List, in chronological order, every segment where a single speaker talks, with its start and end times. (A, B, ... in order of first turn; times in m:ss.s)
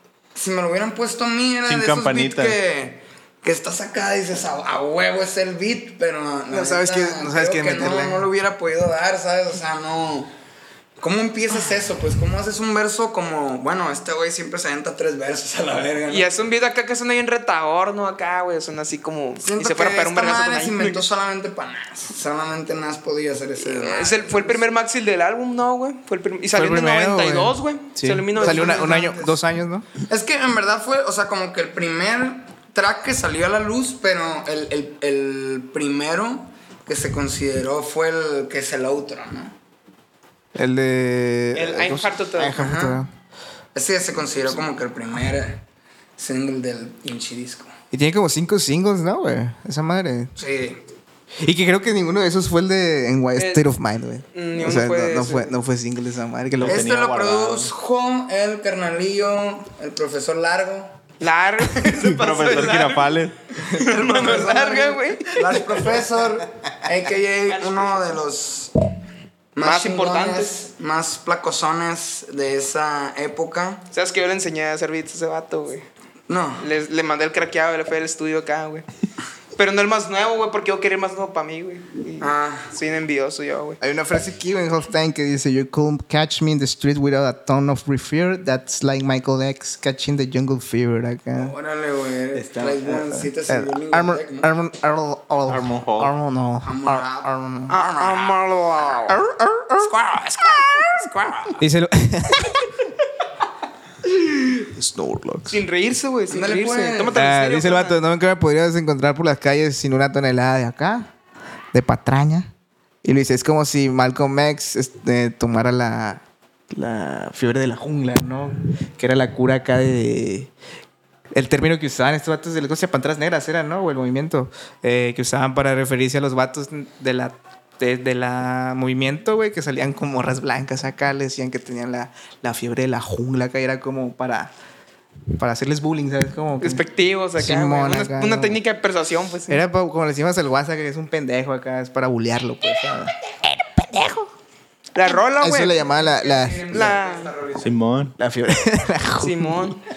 0:00.3-0:10.3 A
0:01.7-0:02.6 B
0:06.5-0:08.3 C
0:11.0-0:16.3 A
0:16.1-0:21.0 D
0:19.4-0:24.6 A
0:23.6-0:29.0 D
0:26.5-0:29.9 C
0:28.3-0:29.4 A
0:30.0-0:39.5 A
0:40.5-0:43.1 C
0:41.5-0:42.6 D
0:42.5-0:43.0 A
0:43.7-0:45.6 A
0:46.2-0:47.7 A
0:47.9-0:50.3 C
0:50.4-0:50.8 A
0:51.4-0:56.8 C
0:53.4-0:53.7 D
0:54.3-0:55.5 D
0:56.6-0:57.7 B
0:56.6-1:01.0 A
1:01.2-1:05.7 D
1:02.0-1:03.3 B
1:03.7-1:08.7 A
1:07.5-1:08.2 D
1:09.5-1:13.8 A
1:09.6-1:10.5 D
1:13.9-1:15.8 D
1:16.3-1:16.6 A
1:16.6-1:18.8 D
1:19.6-1:23.8 D
1:22.2-1:22.7 A
1:23.8-1:31.5 C
1:31.3-1:34.5 A
1:32.3-1:37.7 C
1:35.5-1:36.1 B
1:36.6-1:38.4 A
1:37.7-1:39.2 D
1:39.1-1:39.9 C
1:39.8-1:41.6 A
1:41.6-1:42.7 C
1:44.0-1:45.6 C
1:45.5-1:48.0 D
1:46.3-1:47.2 A
1:47.1-1:51.1 C
1:51.7-1:52.5 C
1:53.0-2:00.5 C
2:01.3-2:14.5 C
2:15.3-2:16.8 C
2:16.6-2:19.6 D
2:17.4-2:18.6 C
2:19.5-2:24.3 C
2:24.9-2:25.8 D
2:25.3-2:27.0 C
2:25.7-2:27.7 A
2:26.7-2:27.3 D
2:27.6-2:28.1 B
2:28.2-2:29.7 C
2:29.2-2:29.8 D